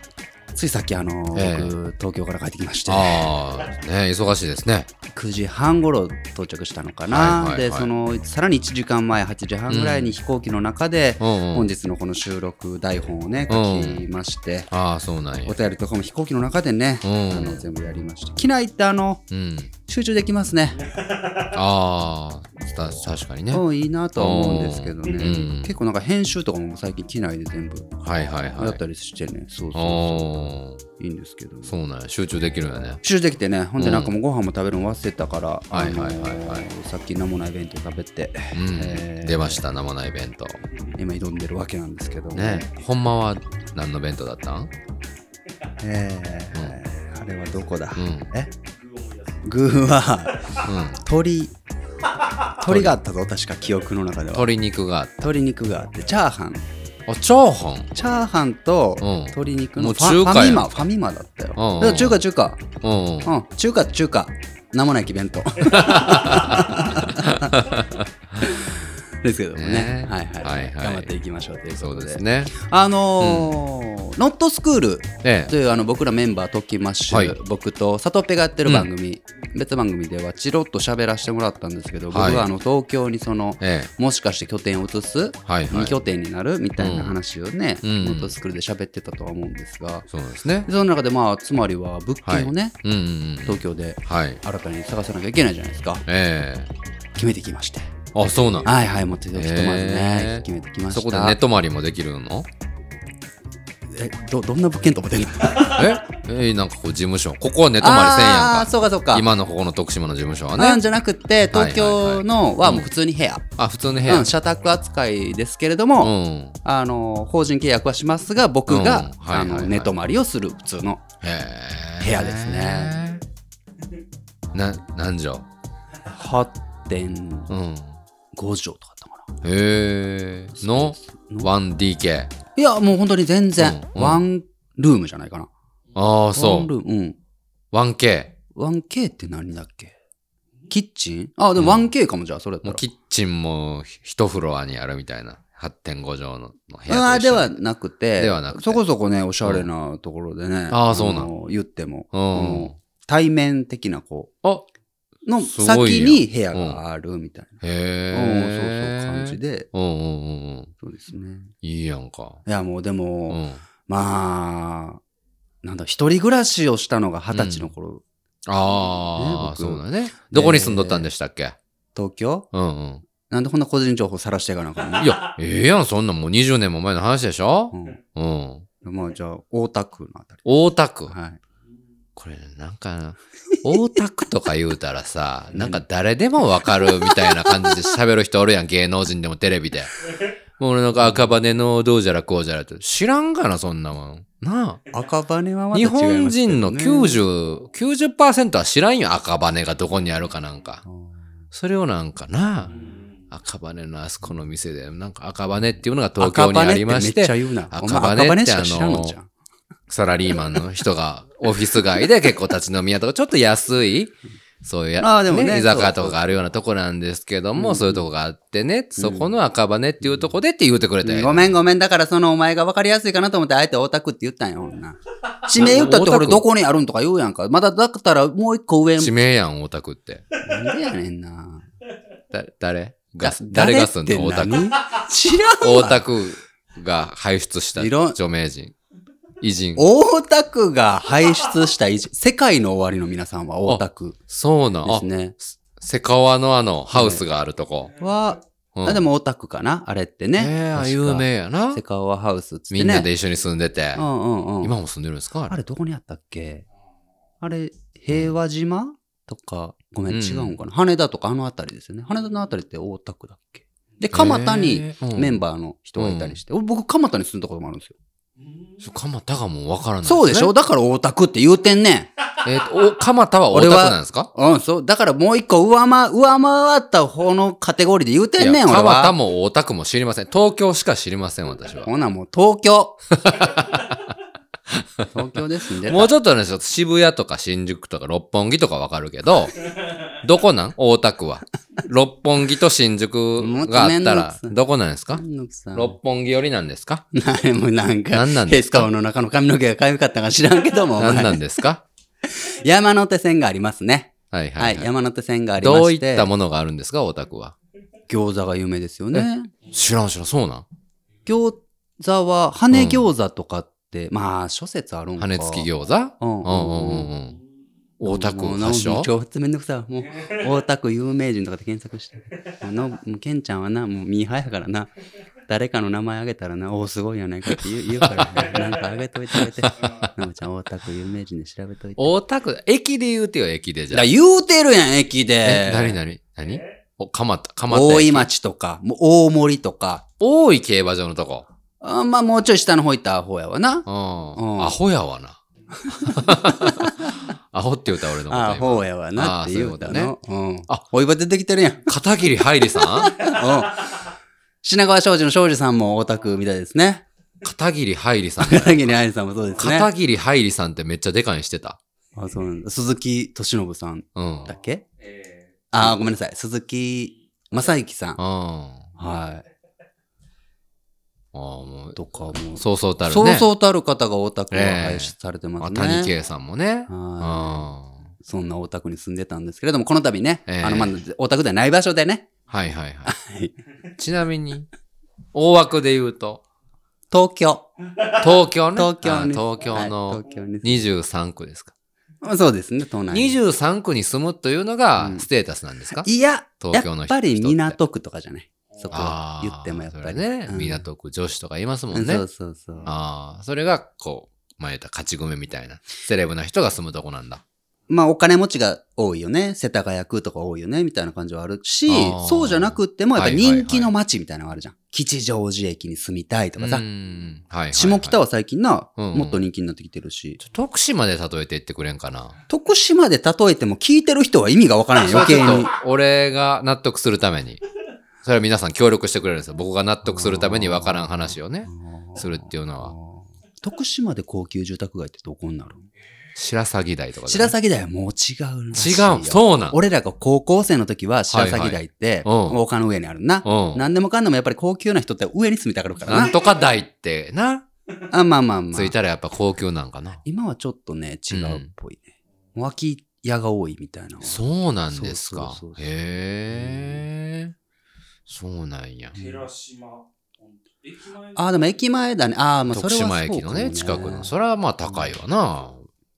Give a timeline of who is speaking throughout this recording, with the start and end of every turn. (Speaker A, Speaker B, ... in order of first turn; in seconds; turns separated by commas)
Speaker A: 0.6-3.3, Speaker B: 1.4-1.8, Speaker B: 2.9-4.9, Speaker A: 5.1-14.7, Speaker B: 7.1-7.9, Speaker B: 9.7-10.1, Speaker B: 11.2-11.7, Speaker B: 13.5-14.0, Speaker B: 14.7-15.5, Speaker A: 15.5-19.2, Speaker B: 17.0-17.6, Speaker B: 19.3-19.7, Speaker A: 19.9-20.8, Speaker C: 20.8-21.5, Speaker B: 21.5-23.6, Speaker A: 23.5-27.9, Speaker B: 24.1-25.7, Speaker B: 28.0-28.8, Speaker A: 28.6-31.7, Speaker B: 29.7-30.8, Speaker B: 31.7-33.0, Speaker A: 33.0-39.7, Speaker B: 33.8-34.1, Speaker B: 35.7-36.7, Speaker B: 38.5-40.6, Speaker A: 41.0-42.7, Speaker B: 42.3-44.7, Speaker A: 45.8-48.5, Speaker B: 46.5-46.8, Speaker B: 48.0-48.3, Speaker C: 48.5-50.7, Speaker A: 49.4-51.5, Speaker B: 50.6-51.0, Speaker C: 52.2-52.5, Speaker A: 52.6-54.5, Speaker B: 52.7-53.0, Speaker B: 54.3-55.3, Speaker A: 55.2-56.6, Speaker B: 57.1-57.9, Speaker A: 58.0-62.6, Speaker B: 59.0-60.8, Speaker B: 61.6-62.2, Speaker B: 62.8-63.3, Speaker A: 63.2-67.7, Speaker B: 65.7-68.7, Speaker A: 68.4-90.1, Speaker B: 69.5-71.1, Speaker B: 71.7-72.5, Speaker B: 73.2-73.6, Speaker B: 75.2-75.5, Speaker B: 77.1-77.4, Speaker B: 82.1-82.5, Speaker B: 83.6-83.9, Speaker B: 85.5-86.0, Speaker B: 86.8-87.2, Speaker B: 87.8-88.3, Speaker B: 90.1-90.7, Speaker A: 90.7-92.8, Speaker B: 92.2-94.4, Speaker A: 93.5-96.0, Speaker B: 96.1-96.7, Speaker A: 97.2-97.9, Speaker B: 98.1-98.7, Speaker A: 98.6-101.4, Speaker B: 99.3-102.5, Speaker A: 103.9-105.9, Speaker B: 105.6-110.8, Speaker A: 107.8-109.2, Speaker A: 110.6-113.4, Speaker B: 111.5-112.9, Speaker B: 113.6-114.3, Speaker A: 114.1-121.0, Speaker B: 116.0-116.6, Speaker B: 118.7-119.9, Speaker B: 121.2-123.2, Speaker A: 122.0-123.0, Speaker B: 124.5-125.5, Speaker A: 126.1-127.5, Speaker B: 127.5-128.0, Speaker A: 128.3-129.2, Speaker B: 129.4-132.3, Speaker A: 130.6-131.5, Speaker A: 132.6-135.5, Speaker B: 133.6-134.2, Speaker B: 135.9-136.7, Speaker A: 136.3-137.2, Speaker B: 137.7-138.4, Speaker A: 138.5-139.9, Speaker A: 140.7-142.8, Speaker B: 141.6-141.9, Speaker B: 142.6-147.6, Speaker A: 146.9-154.3, Speaker B: 148.2-148.8, Speaker B: 150.7-151.3, Speaker B: 152.1-152.8, Speaker A: 155.2-159.7, Speaker B: 155.4-156.8, Speaker B: 157.6-160.7, Speaker A: 160.8-161.5, Speaker B: 161.6-162.4, Speaker A: 162.5-165.0, Speaker B: 163.3-163.6, Speaker A: 165.6-168.0, Speaker B: 167.3-167.7, Speaker B: 168.5-171.6, Speaker A: 169.2-171.1, Speaker A: 171.9-172.5, Speaker B: 172.5-173.0, Speaker A: 173.3-175.2, Speaker B: 175.0-178.7, Speaker C: 175.0-175.3, Speaker A: 177.7-178.0, Speaker A: 178.8-180.4, Speaker B: 180.4-181.1, Speaker A: 181.1-181.4, Speaker B: 182.2-190.1, Speaker A: 185.5-185.8, Speaker A: 186.7-187.8, Speaker B: 190.6-194.8, Speaker A: 191.0-191.3, Speaker A: 194.9-197.2, Speaker B: 195.7-200.8, Speaker A: 200.9-201.1, Speaker B: 201.5-202.7, Speaker C: 202.7-203.2, Speaker B: 203.3-209.2, Speaker A: 206.2-209.3, Speaker B: 209.9-221.5, Speaker A: 215.0-216.2, Speaker A: 217.6-218.0, Speaker A: 219.0-219.3, Speaker A: 221.0-229.1, Speaker B: 225.6-226.4, Speaker B: 229.0-230.2, Speaker C: 230.3-230.7, Speaker A: 230.4-231.6, Speaker B: 232.3-234.7, Speaker A: 233.2-236.0, Speaker B: 235.6-238.7, Speaker A: 237.8-238.2, Speaker B: 239.4-239.9, Speaker A: 239.8-244.2, Speaker B: 243.7-247.9, Speaker A: 244.8-245.4, Speaker A: 246.9-247.2, Speaker A: 248.0-253.1, Speaker B: 248.8-249.0, Speaker B: 250.4-251.8, Speaker B: 252.7-254.1, Speaker A: 253.9-254.7, Speaker B: 254.6-255.6, Speaker A: 255.5-256.6, Speaker A: 257.4-267.9, Speaker B: 260.1-260.6, Speaker B: 264.1-265.4, Speaker B: 266.0-266.4, Speaker C: 268.4-268.8, Speaker B: 268.8-270.5, Speaker A: 270.0-272.1, Speaker B: 272.4-274.3, Speaker A: 273.5-279.1, Speaker B: 278.4-281.9, Speaker A: 281.9-283.0, Speaker B: 283.1-284.0, Speaker B: 284.7-285.1, Speaker A: 285.1-286.1, Speaker B: 285.9-289.7, Speaker B: 290.2-295.2, Speaker A: 293.4-294.6, Speaker A: 295.1-296.0, Speaker B: 295.7-297.1, Speaker A: 297.1-301.6, Speaker B: 298.1-298.9, Speaker B: 300.9-301.8, Speaker A: 302.3-306.3, Speaker B: 304.3-304.9, Speaker B: 305.6-307.6, Speaker A: 308.1-309.5, Speaker B: 309.1-310.7, Speaker A: 311.3-315.7, Speaker B: 312.7-313.1, Speaker B: 315.2-317.4, Speaker A: 316.2-317.1, Speaker B: 318.0-319.1, Speaker A: 318.0-324.9, Speaker C: 320.1-320.4, Speaker A: 325.5-332.1, Speaker B: 328.0-328.4, Speaker C: 328.5-328.8, Speaker B: 329.3-330.1, Speaker C: 329.8-330.1, Speaker B: 332.0-334.1, Speaker A: 333.9-336.0, Speaker B: 335.4-338.3, Speaker A: 337.7-340.1, Speaker B: 340.2-341.5, Speaker A: 341.8-344.7, Speaker B: 343.9-345.4, Speaker A: 345.9-347.2, Speaker B: 346.0-350.1, Speaker A: 348.3-351.9, Speaker B: 351.9-353.2, Speaker A: 352.8-354.1, Speaker A: 354.6-357.1, Speaker B: 357.4-358.9, Speaker A: 358.4-359.9, Speaker B: 359.6-361.8, Speaker A: 362.2-364.8, Speaker B: 364.1-364.5, Speaker C: 365.0-365.6, Speaker A: 365.7-368.2, Speaker B: 368.2-368.9, Speaker A: 369.0-369.4, Speaker B: 371.3-372.0, Speaker A: 371.9-376.1, Speaker B: 372.6-373.5, Speaker B: 374.5-377.9, Speaker A: 376.9-382.3, Speaker B: 380.5-381.0, Speaker B: 382.5-383.1, Speaker A: 383.1-383.6, Speaker B: 384.0-384.7, Speaker B: 385.3-386.4, Speaker A: 387.1-387.7, Speaker C: 388.0-388.2, Speaker B: 388.2-391.7, Speaker A: 388.7-390.8, Speaker A: 392.2-393.4, Speaker B: 393.1-396.1, Speaker A: 395.0-395.2, Speaker A: 396.0-400.9, Speaker B: 396.6-397.8, Speaker C: 398.7-399.0, Speaker B: 398.9-402.2, Speaker A: 401.9-402.9, Speaker B: 402.9-407.4, Speaker A: 407.9-416.8, Speaker B: 411.9-413.9, Speaker B: 416.6-418.2, Speaker A: 417.7-420.4, Speaker B: 419.0-419.4, Speaker B: 420.4-422.4, Speaker A: 422.5-425.7, Speaker B: 425.0-427.6, Speaker B: 428.2-432.9, Speaker A: 430.1-435.9, Speaker B: 436.4-437.6, Speaker A: 437.2-446.4, Speaker B: 438.8-439.8, Speaker B: 441.3-442.6, Speaker B: 443.4-443.8, Speaker B: 446.1-447.7, Speaker A: 448.1-448.9, Speaker B: 448.7-450.2, Speaker A: 450.2-452.1, Speaker B: 451.3-451.7, Speaker A: 452.6-455.9, Speaker B: 454.2-457.6, Speaker A: 456.5-457.1, Speaker B: 458.3-459.2, Speaker A: 459.1-459.5, Speaker C: 459.1-461.7, Speaker A: 461.4-464.3, Speaker B: 462.7-465.9